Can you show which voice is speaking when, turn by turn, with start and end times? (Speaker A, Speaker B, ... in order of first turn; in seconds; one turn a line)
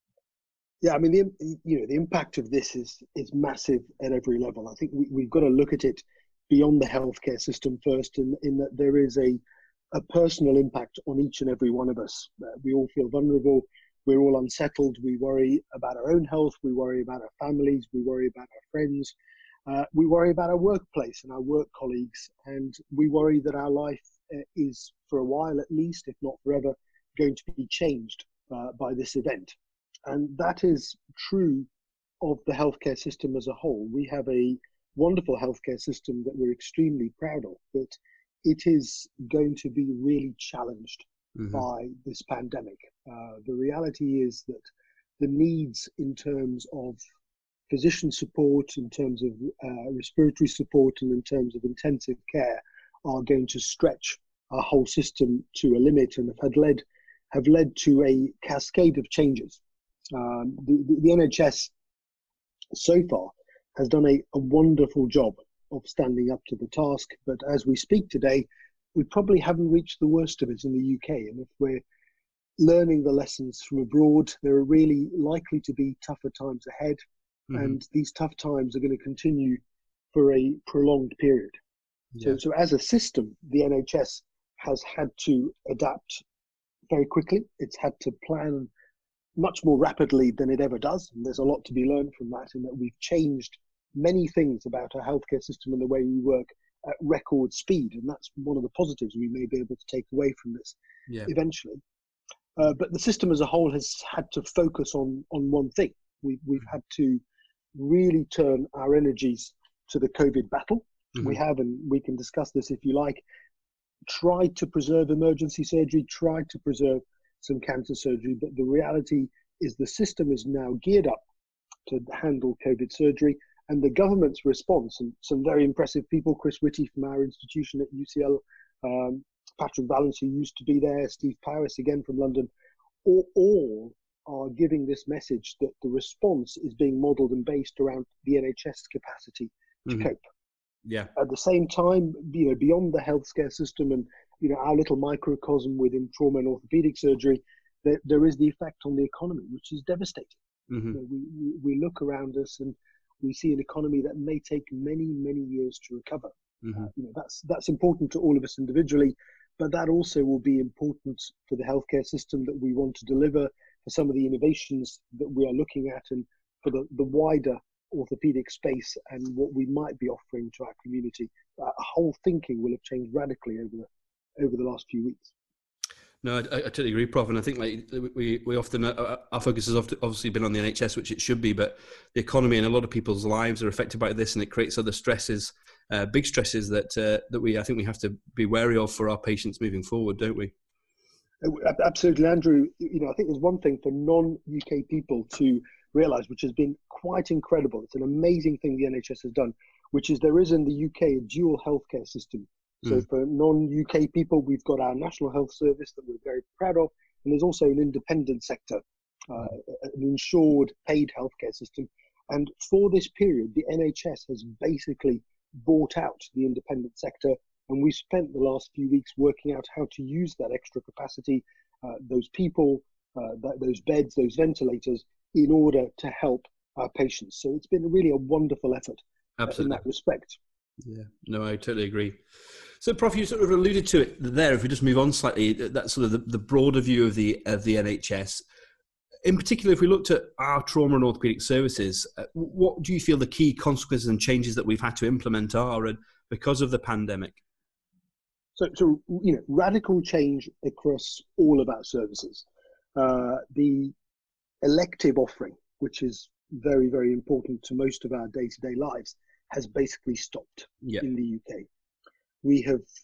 Speaker A: 0.8-9.4
Speaker A: 9.9-19.1
Speaker A: 19.7-29.5
Speaker A: 30.1-31.7
Speaker A: 32.2-44.6
Speaker A: 45.2-47.0
Speaker A: 47.7-59.6
Speaker A: 60.1-61.7
Speaker A: 62.7-71.8
Speaker A: 72.6-77.0
Speaker B: 77.5-77.8
Speaker A: 77.5-79.6
Speaker A: 80.1-81.5
Speaker A: 82.2-86.2
Speaker A: 86.9-88.7
Speaker A: 89.4-101.8
Speaker A: 102.6-107.2
Speaker A: 107.8-113.2
Speaker A: 114.1-121.2
Speaker A: 121.9-132.5
Speaker A: 133.0-140.2
Speaker B: 140.8-141.1
Speaker A: 141.2-150.4
Speaker B: 150.7-151.0
Speaker A: 150.9-175.3
Speaker B: 156.6-156.9
Speaker B: 176.2-190.5
Speaker A: 191.4-230.4
Speaker B: 229.4-229.8
Speaker B: 230.8-232.2
Speaker B: 232.8-238.4
Speaker B: 239.2-247.4
Speaker A: 248.6-253.9
Speaker A: 254.6-261.7
Speaker A: 262.4-262.9